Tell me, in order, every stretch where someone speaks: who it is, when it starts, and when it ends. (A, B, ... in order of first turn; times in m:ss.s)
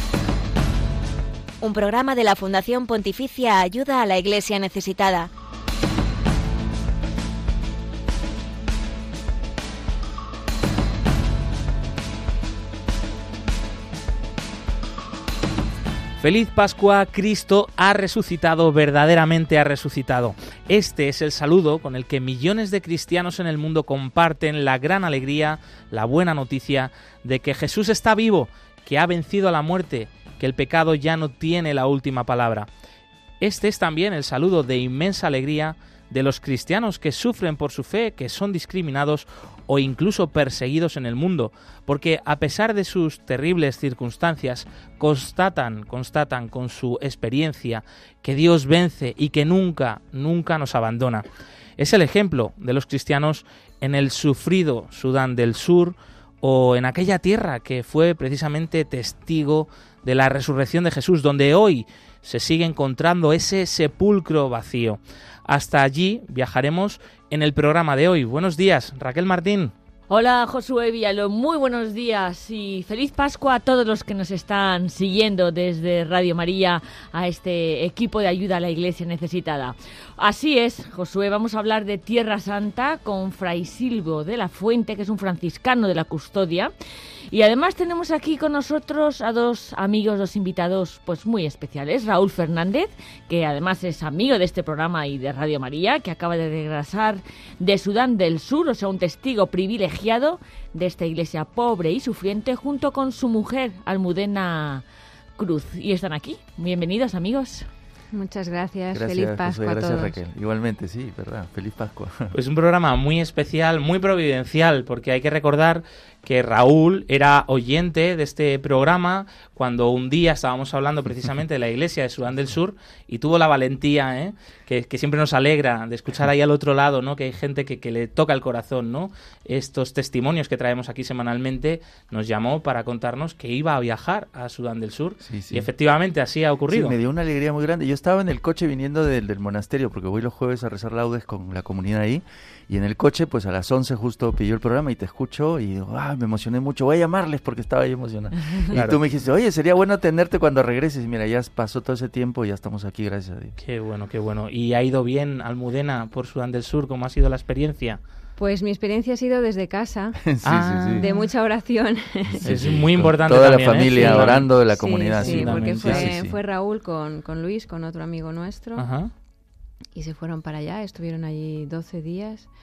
0:01.6-0:05.3 A
0:16.2-0:32.7 B
0:33.4-0:51.2 B
0:51.8-1:09.7 B
1:10.1-1:26.7 C
1:27.3-1:44.8 C
1:45.4-1:47.7 C
1:48.1-1:50.2 D
1:48.9-1:52.3 E
1:52.3-2:17.0 B
2:15.2-2:15.7 E
2:16.7-2:33.6 E
2:28.7-2:29.0 B
2:33.6-2:38.0 B
2:38.4-2:42.7 D
2:40.2-2:41.1 E
2:40.4-2:41.2 B
2:42.3-2:46.4 E
2:42.4-2:44.6 B
2:43.9-2:48.8 D
2:45.2-2:46.1 B
2:48.8-2:49.1 B
2:49.9-2:52.5 D